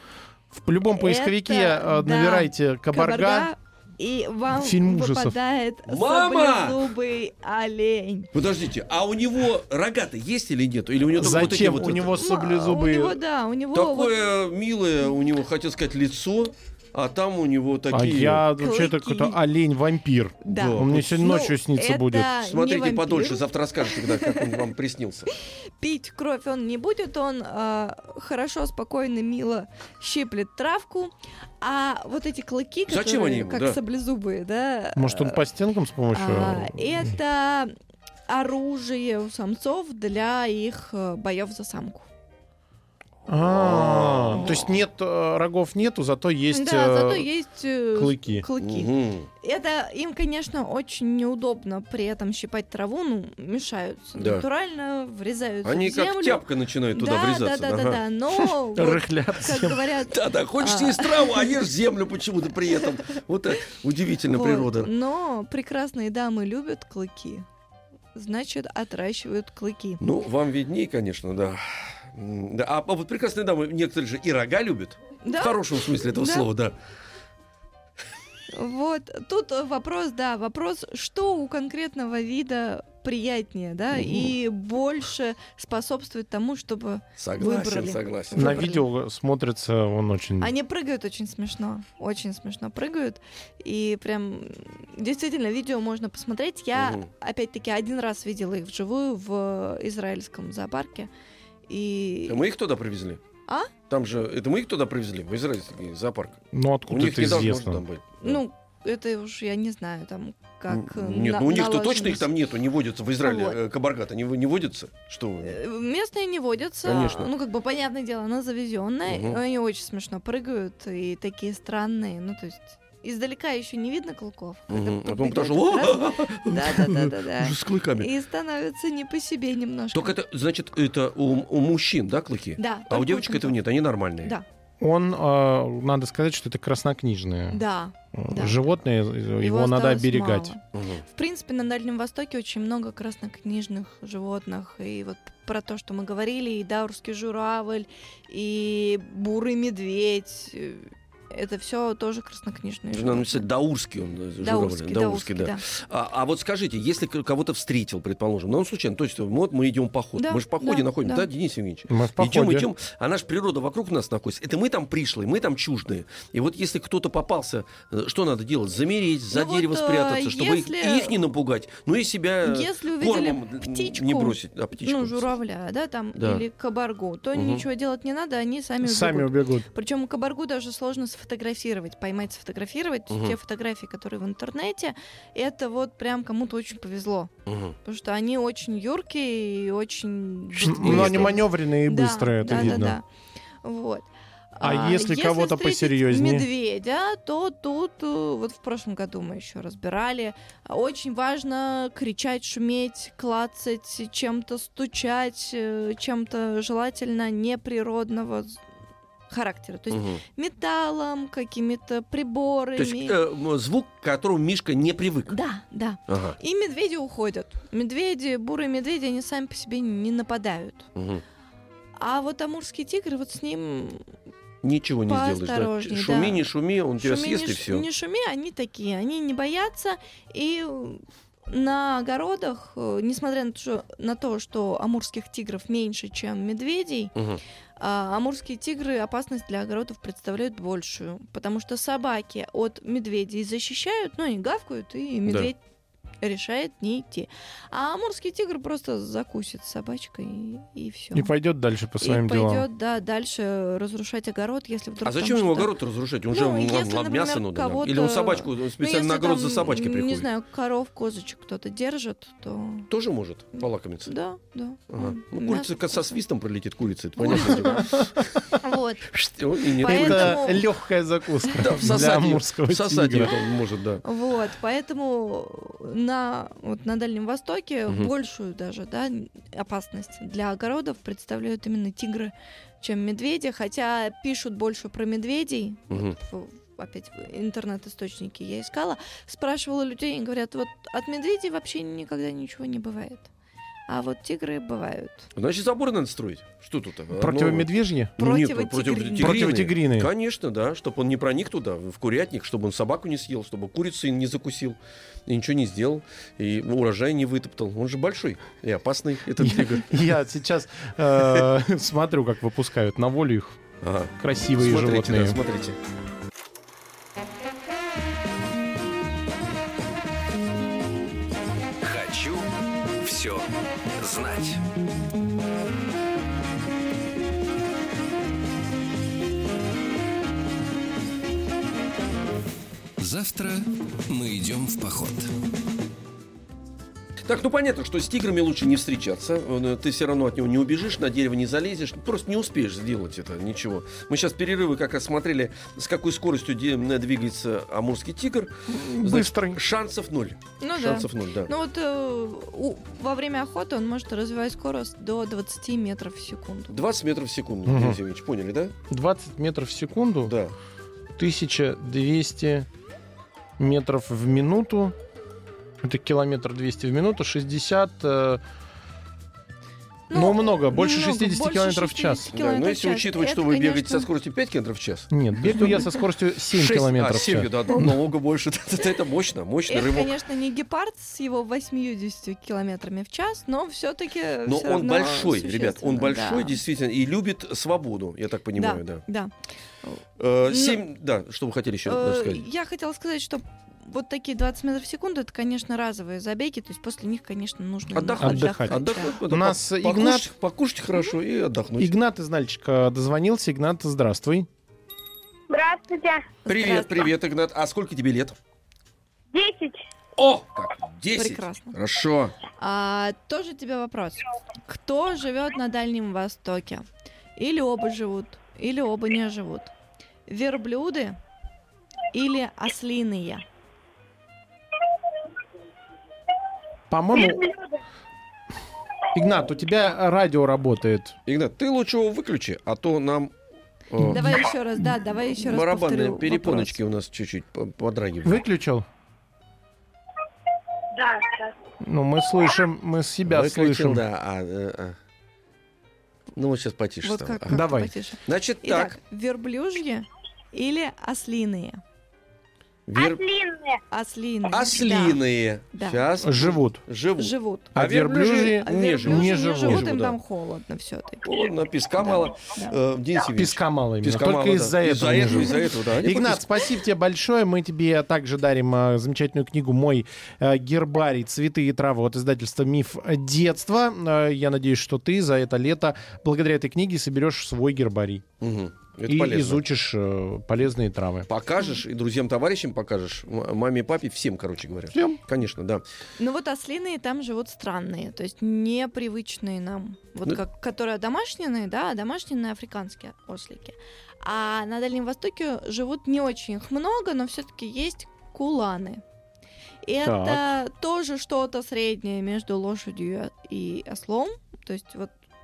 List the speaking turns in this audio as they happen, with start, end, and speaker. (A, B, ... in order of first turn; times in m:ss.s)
0:00.5-0:03.5 A
0:00.9-0:08.3 B
0:04.5-0:05.4 A
0:05.9-0:06.8 C
0:08.3-0:12.2 C
0:11.2-0:13.2 A
0:11.6-0:14.1 B
0:13.7-0:18.4 C
0:17.9-0:22.3 A
0:18.6-0:19.4 B
0:20.4-0:24.6 B
0:20.5-0:21.3 C
0:22.4-0:25.3 C
0:25.5-0:35.4 B
0:32.9-0:33.8 C
0:35.0-0:37.1 A
0:36.1-0:37.7 B
0:38.3-0:42.1 B
0:43.3-0:47.3 A
0:43.3-0:44.7 C
0:46.5-1:01.6 B
0:47.9-0:48.4 A
0:48.6-0:49.3 C
0:54.2-0:54.4 C
0:55.6-0:58.4 C
0:58.8-0:59.9 A
1:00.1-1:04.9 C
1:04.3-1:07.4 B
1:08.1-1:10.0 B
1:10.0-1:16.7 C
1:15.2-1:16.5 B
1:18.5-1:28.8 B
1:23.9-1:24.3 C
1:27.2-1:28.7 C
1:28.3-1:30.5 A
1:30.4-1:41.1 B
1:36.8-1:37.0 C
1:41.7-1:42.4 B
1:42.3-1:43.2 C
1:43.9-1:48.4 C
1:46.5-1:47.8 A
1:48.2-1:52.3 B
1:50.7-1:55.6 C
1:53.2-1:53.6 B
1:55.4-2:10.1 B
1:56.8-1:57.3 C
1:59.1-1:59.4 C
2:04.7-2:08.1 C
2:09.9-2:14.3 C
2:12.6-2:13.6 B
2:14.8-2:17.6 A
2:17.5-2:18.6 B
2:18.1-2:20.5 A
2:19.4-2:33.4 B
2:20.7-2:21.0 C
2:32.9-2:55.3 C
2:34.4-2:35.6 B
2:40.2-2:41.3 B
2:41.9-2:42.7 A
2:49.3-2:51.2 B
2:52.4-3:07.3 B
2:56.2-2:56.4 C
2:57.3-2:57.6 C
2:58.8-2:59.7 A
3:03.1-3:03.4 C
3:07.4-3:07.8 C
3:07.8-3:13.0 B
3:10.6-3:11.4 C
3:10.6-3:13.0 A
3:12.5-3:12.9 C
3:13.6-3:28.6 B
3:14.6-3:16.5 A
3:29.3-3:33.2 B
3:29.9-3:30.2 C
3:32.8-3:35.4 C
3:35.3-3:40.9 B
3:36.1-3:36.4 C
3:40.9-3:41.2 C
3:42.0-3:44.0 B
3:44.6-3:47.8 C
3:45.1-3:46.4 B
3:47.0-3:57.1 B
3:57.2-3:57.4 C
3:57.8-4:05.6 B
4:06.2-4:11.3 B
4:11.1-4:12.6 A
4:12.0-4:15.7 B
4:15.0-4:20.3 C
4:16.3-4:22.9 B
4:22.9-4:24.1 C
4:23.6-4:26.1 B
4:24.9-4:28.4 C
4:27.2-4:28.0 B
4:27.7-4:28.2 A
4:28.5-4:29.1 B
4:29.1-4:30.6 C
4:29.8-4:30.6 B
4:29.8-4:33.3 A
4:31.4-4:32.0 B
4:31.5-4:34.0 C
4:34.0-4:53.3 B
4:45.9-4:46.2 C
4:53.9-4:55.3 B
4:55.4-5:10.1 C
4:57.2-4:58.1 A
4:58.2-4:59.6 B
4:59.2-5:00.1 A
5:09.4-5:13.6 A
5:13.8-5:15.8 C
5:14.2-5:15.4 A
5:21.8-5:24.6 D
5:33.0-5:35.3 D
5:37.2-5:51.5 C
5:48.7-5:49.6 A
5:50.6-5:56.8 B
5:56.7-5:58.7 C
5:57.6-5:58.0 A
5:58.9-6:00.3 A
6:00.2-6:00.5 C
6:01.2-6:02.7 A
6:03.6-6:04.9 A
6:05.8-6:08.4 A
6:10.1-6:14.1 B
6:10.1-6:12.3 A
6:12.3-6:15.8 C
6:15.1-6:17.9 A
6:16.5-6:20.1 C
6:19.7-6:26.6 B
6:24.4-6:29.0 C
6:28.6-6:29.3 B
6:29.8-6:30.8 B
6:30.2-6:32.4 C
6:31.8-6:39.2 B
6:37.9-6:41.9 C
6:38.2-6:40.3 A
6:41.8-6:44.5 A
6:45.5-6:46.3 E
6:46.4-6:47.1 B
6:46.4-6:48.4 C
6:49.3-6:49.9 E
6:50.2-6:52.4 C
6:51.2-6:51.8 B
6:52.6-6:59.7 B
7:00.3-7:01.2 B
7:02.1-7:03.4 B
7:06.9-7:07.5 A
7:09.1-7:11.2 A
7:11.2-7:13.3 C
7:13.9-7:14.4 C
7:14.0-7:14.4 A
7:14.0-7:16.8 B
7:15.3-7:18.4 C
7:18.2-7:18.8 A
7:21.0-7:21.5 E
7:21.8-7:24.0 A
7:23.2-7:24.9 C
7:26.4-7:27.6 C
7:27.0-7:31.8 B
7:27.5-7:27.9 A
7:28.2-7:29.0 C
7:32.9-7:33.3 C
7:33.0-7:33.8 E
7:33.9-7:35.2 B
7:34.5-7:40.2 C
7:35.7-7:36.0 B
7:36.2-7:36.8 A
7:37.2-7:37.7 B
7:37.7-7:39.9 A
7:38.6-7:41.3 B
7:41.2-7:46.7 C
7:42.0-7:42.8 B
7:43.3-7:58.2 A
7:58.4-7:59.6 C
7:59.1-8:01.3 A
8:01.3-8:05.8 C
8:04.9-8:05.2 A
8:06.2-8:19.0 B
8:19.8-8:25.1 B
8:20.0-8:20.4 A